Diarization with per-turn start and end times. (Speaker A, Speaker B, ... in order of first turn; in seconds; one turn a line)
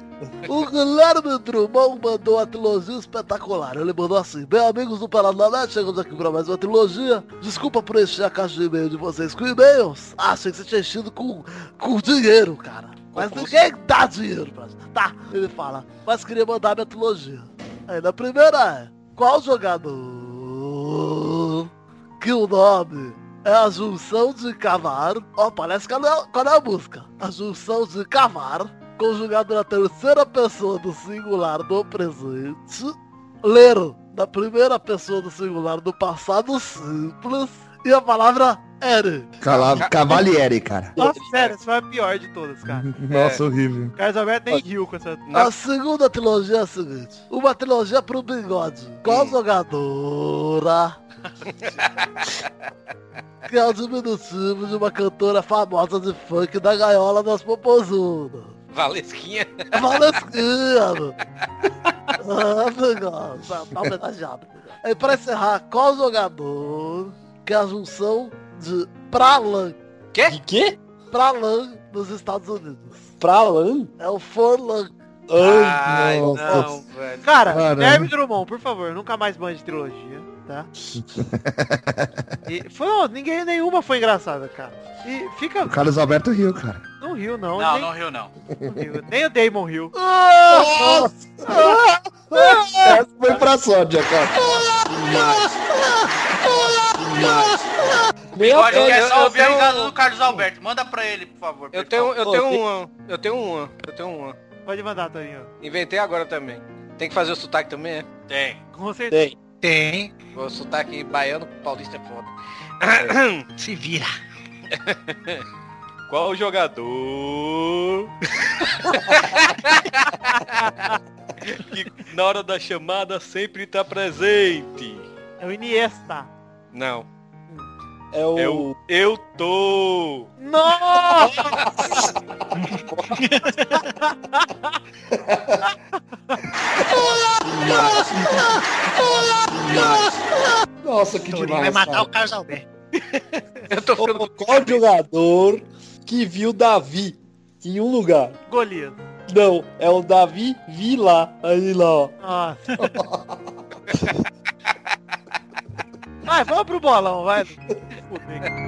Speaker A: 0.5-39.3
Speaker B: 13.1-13.6
Speaker C: 39.4-40.9
Speaker B: 39.6-40.2
Speaker D: 41.0-41.2
Speaker E: 41.0-42.9
Speaker C: 42.7-43.9
Speaker B: 43.1-43.4
Speaker E: 44.0-45.2
Speaker B: 45.3-45.5
Speaker A: 45.3-51.0
Speaker B: 49.1-49.3
Speaker A: 53.5-58.6
Speaker B: 58.7-60.0
Speaker A: 59.7-61.1
Speaker A: 62.2-69.8
Speaker D: 70.3-70.8
Speaker A: 71.1-73.1
Speaker D: 73.2-73.9
Speaker A: 74.0-74.9
Speaker D: 75.3-76.7
Speaker B: 75.4-77.3
Speaker C: 75.8-76.7
Speaker E: 77.2-80.7
Speaker C: 77.5-78.1
Speaker C: 81.0-82.3
Speaker E: 82.4-85.8
Speaker C: 85.7-86.8
Speaker E: 87.0-87.9
Speaker F: 87.5-88.3
Speaker E: 88.7-89.9
Speaker C: 90.5-91.8
Speaker D: 90.5-91.1
Speaker C: 92.3-94.6
Speaker D: 94.8-95.6
Speaker D: 96.8-99.7
Speaker F: 98.4-102.2
Speaker B: 98.7-99.9
Speaker B: 101.7-104.4
Speaker D: 102.2-102.6
Speaker E: 104.7-105.5
Speaker B: 105.6-108.1
Speaker F: 108.3-108.6
Speaker E: 108.7-109.2
Speaker D: 109.1-109.3
Speaker G: 109.6-110.1
Speaker B: 110.3-113.5
Speaker G: 113.6-114.1
Speaker B: 114.8-115.4
Speaker B: 116.1-118.1
Speaker B: 118.9-120.8
Speaker B: 121.4-125.1
Speaker E: 125.4-126.3
Speaker B: 126.7-127.1
Speaker D: 128.1-128.8
Speaker B: 128.3-130.3
Speaker E: 130.4-131.6
Speaker G: 133.1-133.8
Speaker E: 133.7-134.8
Speaker C: 135.1-135.7
Speaker D: 137.4-138.5
Speaker D: 139.4-140.2
Speaker C: 140.8-142.1
Speaker G: 141.3-142.7
Speaker B: 143.7-144.8
Speaker D: 144.0-148.4
Speaker E: 148.5-149.0
Speaker D: 149.3-152.1
Speaker E: 152.2-152.9
Speaker C: 152.8-153.4
Speaker E: 156.2-158.5